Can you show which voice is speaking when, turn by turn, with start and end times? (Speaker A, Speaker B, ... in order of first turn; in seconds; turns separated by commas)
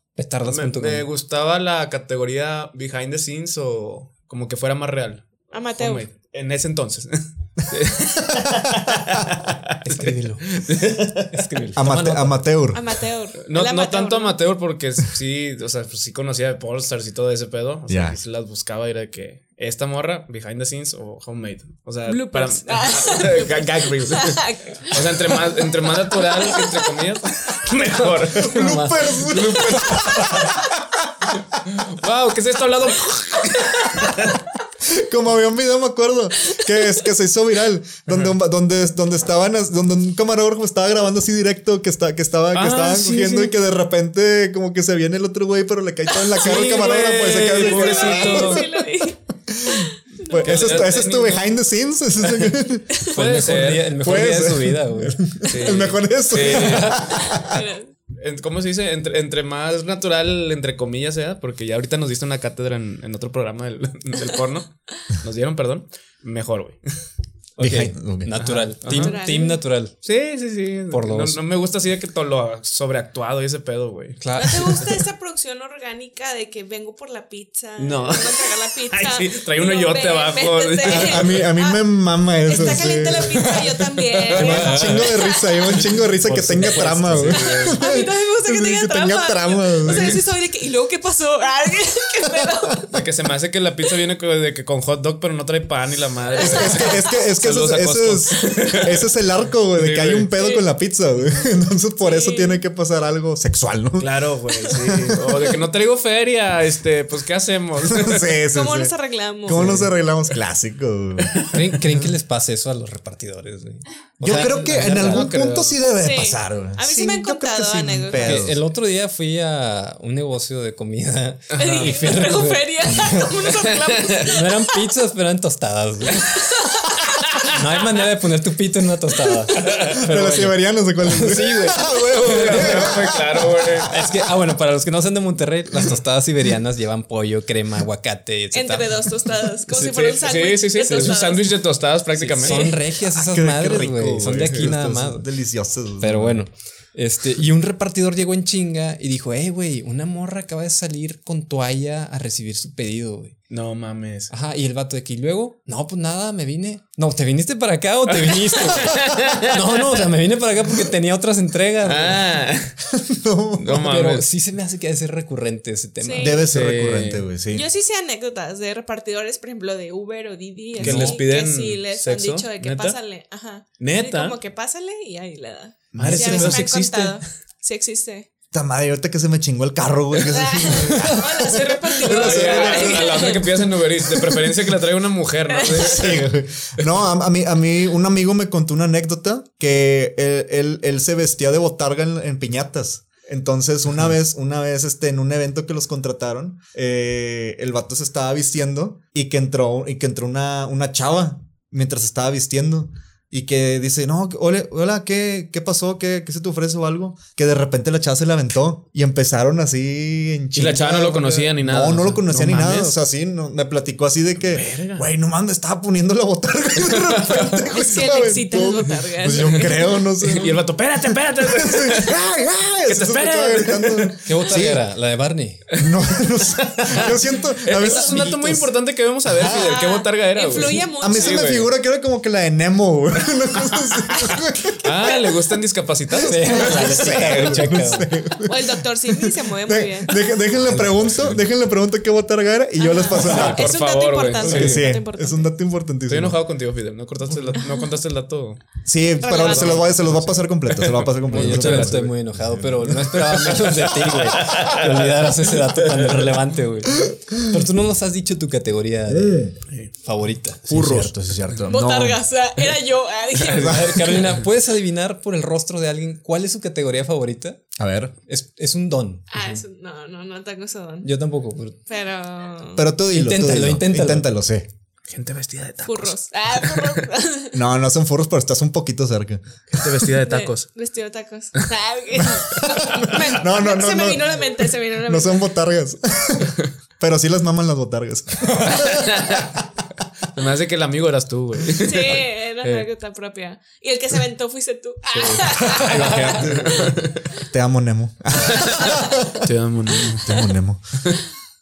Speaker A: 0.2-1.1, Speaker B: 0.4-11.6, Speaker C: 5.5-6.1, Speaker A: 9.8-10.6, Speaker A: 11.3-12.4, Speaker D: 11.8-13.0, Speaker C: 12.7-14.4, Speaker B: 13.5-30.5, Speaker D: 17.9-18.2, Speaker C: 22.1-25.6, Speaker C: 26.1-26.8, Speaker D: 28.3-30.9, Speaker A: 28.4-29.4, Speaker A: 30.0-30.5, Speaker B: 31.6-34.4, Speaker D: 34.9-48.7, Speaker B: 42.5-43.5, Speaker B: 46.4-48.7, Speaker A: 46.4-48.6, Speaker C: 47.5-50.7, Speaker D: 49.5-52.9, Speaker B: 50.3-51.4, Speaker B: 52.2-54.0, Speaker A: 53.1-55.2, Speaker D: 54.0-57.6, Speaker B: 55.4-57.0, Speaker A: 56.4-57.1, Speaker C: 57.3-57.9, Speaker B: 58.2-66.8, Speaker D: 67.6-68.4, Speaker A: 67.6-70.0, Speaker B: 68.3-69.2, Speaker C: 68.9-69.6, Speaker B: 70.0-74.2, Speaker A: 70.9-71.4, Speaker A: 74.2-75.0, Speaker C: 74.3-81.8, Speaker B: 77.8-81.5, Speaker D: 80.9-83.6, Speaker C: 82.5-85.6, Speaker B: 84.3-85.1, Speaker D: 84.3-90.2, Speaker A: 84.5-85.1, Speaker A: 85.7-87.4, Speaker B: 87.1-87.8, Speaker C: 87.7-92.9, Speaker B: 89.9-90.2, Speaker D: 92.4-93.0, Speaker B: 92.9-99.0, Speaker C: 96.3-97.0, Speaker D: 96.4-105.4, Speaker B: 99.8-100.3, Speaker C: 100.4-100.6, Speaker C: 102.0-102.6, Speaker B: 104.0-108.4, Speaker D: 107.9-108.9, Speaker C: 108.5-109.8, Speaker D: 109.5-111.5, Speaker B: 109.5-109.9, Speaker B: 111.2-111.8, Speaker A: 111.5-115.3, Speaker D: 114.2-118.6, Speaker B: 114.3-115.8, Speaker C: 116.0-118.5, Speaker A: 118.2-123.5, Speaker B: 121.5-122.0, Speaker C: 121.6-124.8, Speaker B: 123.8-124.2, Speaker A: 124.2-126.6, Speaker C: 126.1-127.5, Speaker A: 127.4-133.0, Speaker D: 129.6-133.9, Speaker C: 131.9-132.3, Speaker B: 132.2-133.9, Speaker A: 133.9-140.2, Speaker C: 138.5-141.6, Speaker B: 140.1-142.8, Speaker A: 140.8-141.2, Speaker A: 142.2-145.2, Speaker D: 143.1-146.4, Speaker A: 146.0-153.4, Speaker B: 153.5-154.3, Speaker A: 154.3-162.2, Speaker B: 158.3-159.8, Speaker B: 161.8-162.8, Speaker D: 162.9-163.9, Speaker B: 163.6-164.3, Speaker A: 163.7-166.5, Speaker C: 166.0-166.5, Speaker D: 166.2-167.6, Speaker B: 166.5-167.3, Speaker C: 167.5-178.3, Speaker B: 170.8-173.0, Speaker D: 170.8-171.2, Speaker B: 173.8-174.4, Speaker D: 175.9-176.4, Speaker B: 175.9-177.2, Speaker A: 176.0-176.7, Speaker D: 178.5-183.1, Speaker C: 180.3-183.5, Speaker B: 182.0-186.9, Speaker D: 184.1-184.5, Speaker C: 185.5-186.1, Speaker D: 185.6-224.8, Speaker B: 210.6-213.0, Speaker B: 214.5-215.1, Speaker B: 216.9-217.6, Speaker C: 217.7-219.7, Speaker B: 219.4-222.2, Speaker B: 222.9-224.6, Speaker A: 224.2-225.6, Speaker B: 225.7-231.7, Speaker D: 225.8-228.7, Speaker D: 229.3-229.7, Speaker C: 229.4-231.4, Speaker D: 231.0-235.1, Speaker B: 234.0-237.2, Speaker A: 236.2-238.1, Speaker D: 236.2-243.8, Speaker C: 238.4-240.2, Speaker A: 240.7-241.4, Speaker C: 242.8-245.5, Speaker B: 243.1-244.9, Speaker D: 244.4-246.4, Speaker B: 246.1-248.6, Speaker D: 248.8-253.4, Speaker B: 249.2-252.1, Speaker C: 249.2-249.8, Speaker A: 251.3-259.5, Speaker B: 253.2-256.4, Speaker D: 259.1-259.5, Speaker A: 260.0-261.1, Speaker D: 260.7-262.2, Speaker C: 261.7-264.1, Speaker A: 263.4-267.6, Speaker D: 263.4-264.2, Speaker D: 267.8-268.1, Speaker A: 268.3-269.6, Speaker C: 269.3-271.1, Speaker A: 271.0-271.8, Speaker C: 271.9-272.9, Speaker D: 272.8-274.7, Speaker A: 273.1-274.3, Speaker B: 275.1-277.1, Speaker C: 275.9-277.6, Speaker D: 277.5-279.4, Speaker B: 279.7-280.7, Speaker C: 280.2-285.5, Speaker D: 282.2-289.5, Speaker B: 288.8-289.6, Speaker B: 290.4-292.9, Speaker C: 291.8-297.1, Speaker B: 295.1-297.2, Speaker D: 295.6-299.5, Speaker A: 295.7-296.3, Speaker B: 298.5-300.5, Speaker C: 298.6-299.2, Speaker D: 300.2-300.8